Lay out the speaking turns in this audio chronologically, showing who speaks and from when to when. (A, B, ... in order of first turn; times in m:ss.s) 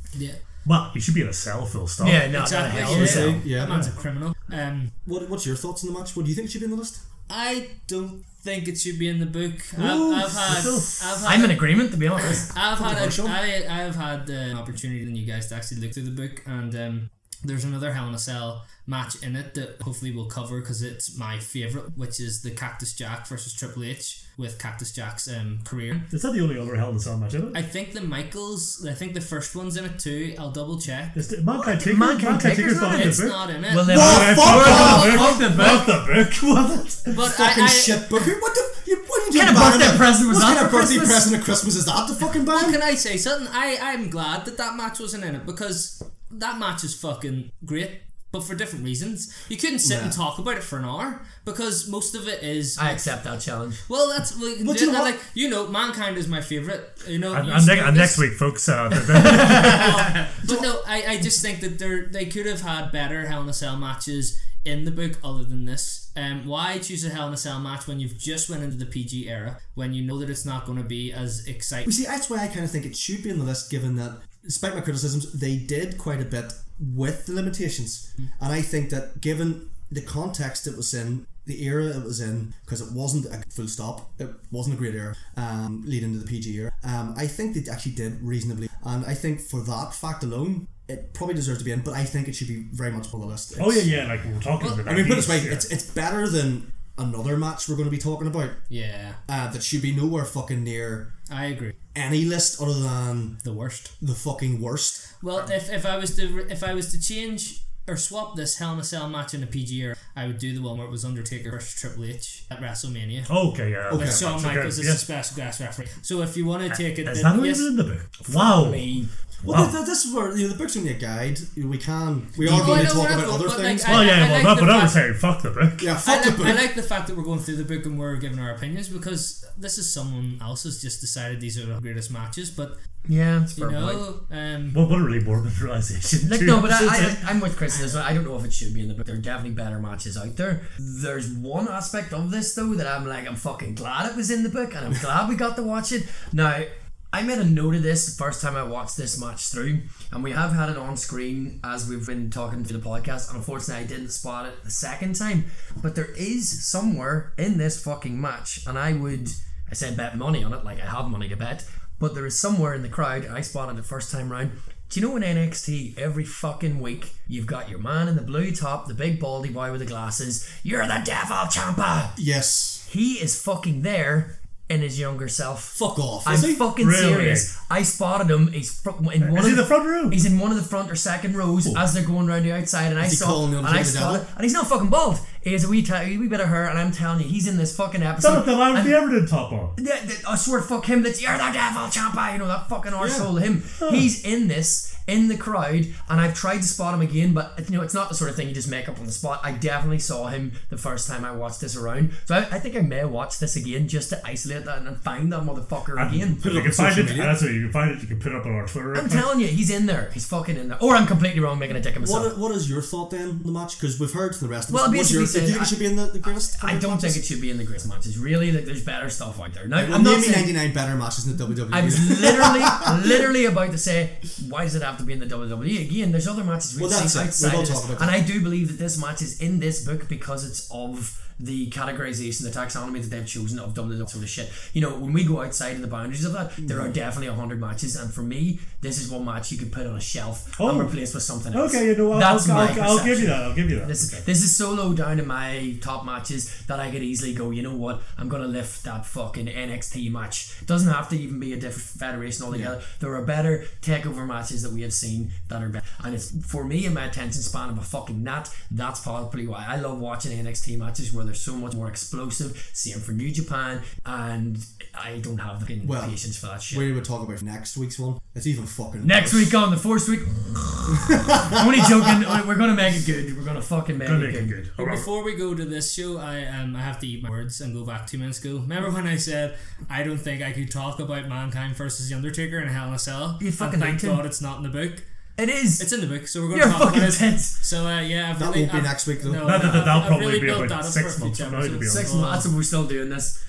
0:00.6-0:02.3 A
0:02.0-0:03.4 B
0:02.3-0:04.9 C
0:02.7-0:03.9 D
0:02.9-0:03.2 A
0:05.0-0:07.0 D
0:07.3-0:26.1 C
0:09.8-0:11.2 A
0:10.5-0:12.5 B
0:12.8-0:13.4 D
0:26.1-0:27.6 A
0:27.5-0:31.2 C
0:31.2-0:37.1 A
0:31.6-0:35.9 B
0:32.6-0:35.7 C
0:33.9-0:35.5 D
0:37.1-0:38.2 C
0:37.1-0:42.8 D
0:39.3-0:41.3 B
0:42.5-0:53.1 C
0:49.8-0:50.2 D
0:52.8-0:53.8 B
0:53.8-0:58.3 C
0:54.6-0:55.1 D
0:57.3-1:00.1 A
0:59.2-1:11.9 C
0:59.4-1:00.0 B
1:11.8-1:34.1 D
1:33.6-1:35.7 A
1:34.8-1:38.6 D
1:38.7-1:39.2 C
1:39.3-1:41.1 D
1:41.3-1:41.8 C
1:41.9-1:43.4 D
1:43.4-1:43.9 C
1:44.0-1:45.0 D
1:45.2-1:53.3 C
1:53.3-1:55.0 A
1:53.9-1:54.3 D
1:53.9-1:57.7 C
1:56.7-1:59.8 A
1:58.3-1:59.1 B
1:59.4-2:04.2 D
2:02.4-2:03.0 B
2:02.5-2:05.0 C
2:03.8-2:06.0 A
2:05.8-2:06.7 D
2:06.0-2:12.8 C
2:13.1-2:14.1 B
2:13.6-2:14.8 C
2:14.7-2:17.3 A
2:16.3-2:52.2 B
2:17.7-2:18.1 C
2:52.2-2:52.9 D
2:52.9-3:09.0 B
2:55.7-2:56.7 D
2:56.8-2:57.5 A
2:59.2-3:00.2 A
3:03.0-3:04.3 D
3:08.2-3:09.8 A
3:09.8-3:26.4 B
3:13.0-3:13.3 D
3:13.8-3:14.1 A
3:25.9-3:29.3 A
3:26.4-3:27.4 D
3:28.9-3:32.3 B
3:32.0-3:37.2 D
3:34.7-3:35.9 B
3:36.5-3:40.5 B
3:39.7-3:43.3 D
3:41.7-4:26.8 B
3:46.8-3:48.2 D
3:56.6-3:57.0 D
4:00.6-4:01.0 A
4:01.5-4:04.3 A
4:25.8-4:26.2 D
4:26.7-4:29.6 D
4:29.0-4:34.6 B
4:31.0-4:32.3 D
4:34.0-4:35.1 A
4:34.8-4:45.0 C
4:43.4-4:44.2 B
4:45.4-4:45.9 B
4:45.8-4:52.0 C
4:46.5-4:47.5 B
4:48.4-4:49.9 D
4:49.4-4:52.5 A
4:51.8-4:53.4 B